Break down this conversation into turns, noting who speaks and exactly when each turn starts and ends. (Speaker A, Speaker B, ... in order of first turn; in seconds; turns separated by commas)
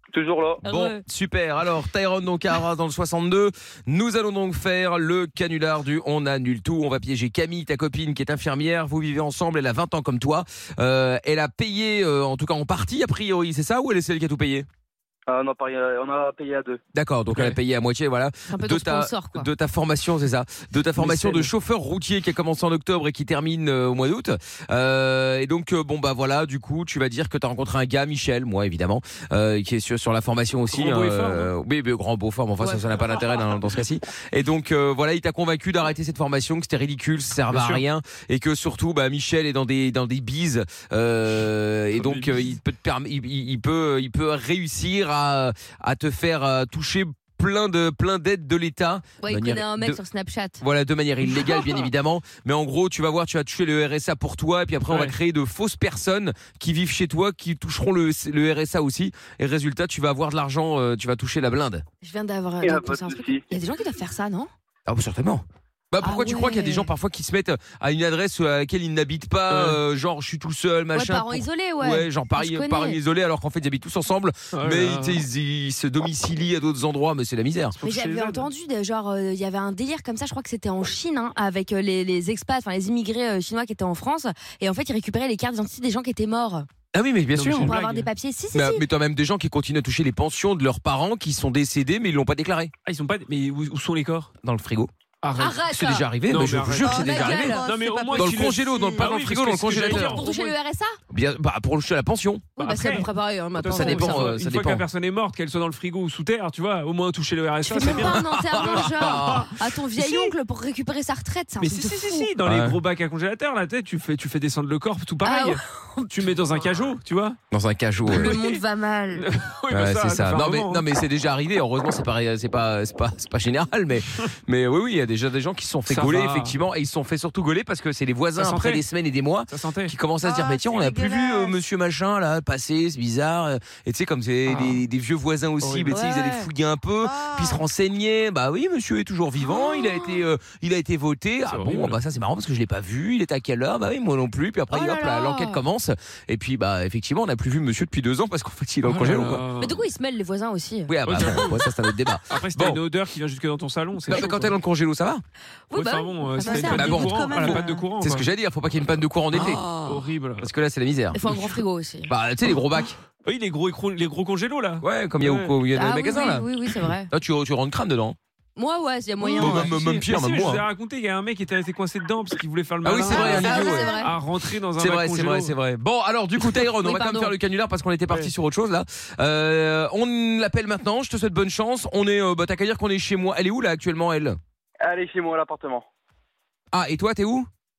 Speaker A: 0.1-0.6, Speaker B: 0.6-1.0, Speaker C: 0.6-14.7, Speaker A: 15.3-16.8, Speaker C: 16.9-50.0, Speaker B: 18.5-19.5, Speaker D: 21.0-21.5, Speaker D: 30.7-31.5, Speaker B: 32.6-33.2, Speaker D: 37.5-37.8, Speaker D: 41.9-42.5, Speaker B: 49.2-50.6, Speaker C: 50.6-61.8, Speaker B: 51.3-51.6, Speaker D: 54.9-55.1, Speaker B: 62.0-64.5, Speaker A: 62.6-63.4, Speaker C: 64.9-77.8, Speaker B: 66.0-66.9, Speaker D: 69.5-69.8, Speaker B: 70.9-73.0, Speaker D: 74.5-75.2, Speaker D: 77.8-78.5, Speaker B: 77.8-86.7, Speaker C: 86.9-87.7, Speaker D: 87.3-88.1, Speaker B: 87.6-88.8, Speaker C: 88.5-92.7, Speaker D: 92.8-94.3, Speaker C: 94.4-94.9, Speaker D: 95.2-95.6, Speaker B: 95.3-96.1, Speaker C: 95.7-97.6, Speaker D: 96.3-100.6, Speaker B: 96.8-99.1, Speaker C: 98.1-100.2, Speaker B: 99.8-101.0, Speaker C: 101.1-102.5, Speaker B: 102.6-104.3, Speaker D: 102.6-110.3, Speaker C: 103.7-104.8, Speaker B: 107.6-112.3, Speaker C: 107.8-109.5, Speaker D: 111.6-117.4, Speaker C: 112.4-112.8, Speaker B: 115.2-116.3, Speaker C: 117.5-118.3, Speaker B: 118.1-119.3, Speaker D: 118.1-118.6, Speaker D: 119.1-120.8, Speaker C: 119.7-149.4, Speaker D: 125.9-126.6, Speaker D: 128.4-128.8, Speaker D: 129.5-129.9, Speaker B: 130.2-131.6, Speaker D: 134.5-134.8, Speaker D: 135.6-136.0, Speaker B: 135.9-136.5, Speaker B: 137.0-137.6, Speaker B: 139.5-140.2, Speaker D: 141.5-142.0, Speaker B: 144.7-145.6, Speaker D: 148.8-149.8, Speaker B: 149.6-151.4, Speaker C: 150.9-152.8, Speaker D: 151.0-151.6, Speaker D: 152.3-154.6, Speaker C: 154.1-155.2, Speaker B: 155.7-157.8, Speaker D: 155.7-158.3, Speaker C: 156.6-159.6, Speaker D: 159.3-160.5, Speaker B: 159.4-160.1, Speaker C: 160.4-161.2, Speaker B: 161.1-162.1, Speaker D: 161.3-161.6, Speaker C: 162.1-163.0, Speaker D: 163.2-165.5, Speaker C: 164.8-166.5, Speaker B: 165.7-167.1, Speaker C: 167.1-168.2, Speaker B: 168.6-169.7, Speaker D: 169.2-175.5, Speaker C: 169.4-170.6, Speaker C: 172.8-173.9, Speaker B: 173.0-174.2, Speaker C: 174.8-184.4, Speaker B: 176.8-177.3, Speaker A: 184.8-185.8, Speaker C: 186.7-187.5